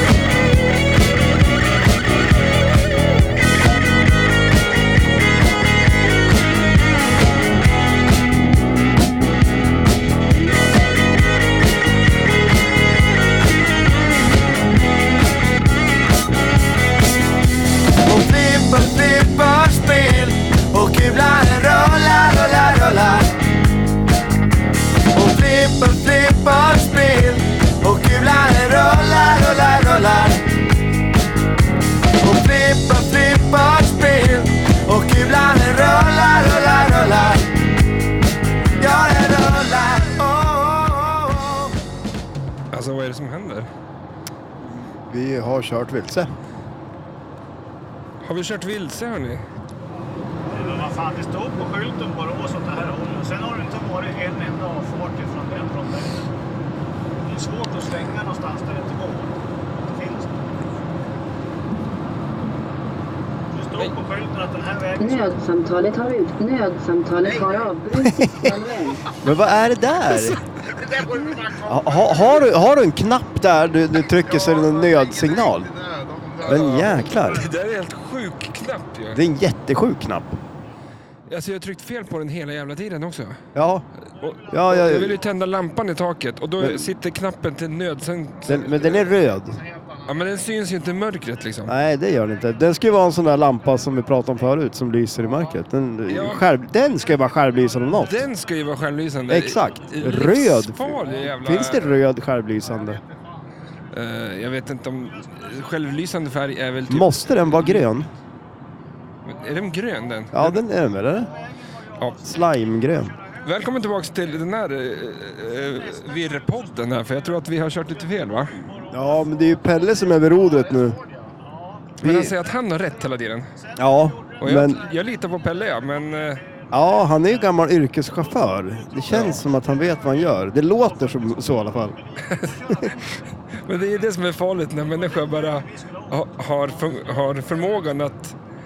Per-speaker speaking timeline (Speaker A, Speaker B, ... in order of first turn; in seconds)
Speaker A: 18.1-23.2, 25.1-30.4, 32.2-37.4, 38.8-41.7
Speaker B: 42.7-43.7, 48.2-49.4, 76.4-79.2, 81.3-83.4, 84.2-89.1, 90.0-91.8, 96.1-96.5, 98.0-101.9, 103.9-107.9, 109.2-110.6, 112.0-112.2, 113.4-118.6, 122.0-123.5, 124.4-126.4, 129.1-129.4, 132.2-132.5, 133.6-138.3
Speaker C: 44.9-46.3, 68.0-68.5, 69.2-70.4, 71.5-77.5, 79.1-80.4, 83.5-83.9, 84.5-85.2, 86.6-86.9, 88.5-89.7, 91.7-98.3, 99.3-103.0, 106.9-108.1, 110.3-111.3, 112.2-113.2, 118.9-121.0, 122.0-122.4, 123.8-124.8, 126.7-132.0
Speaker D: 50.5-56.3, 57.2-59.3, 59.9-60.4, 63.5-65.3, 111.3-112.3, 115.8-117.1, 117.6-119.8, 121.4-121.9, 123.6-125.9, 127.1-127.3, 128.4-130.3, 131.0-133.2, 134.8-137.9
Speaker E: 65.0-69.0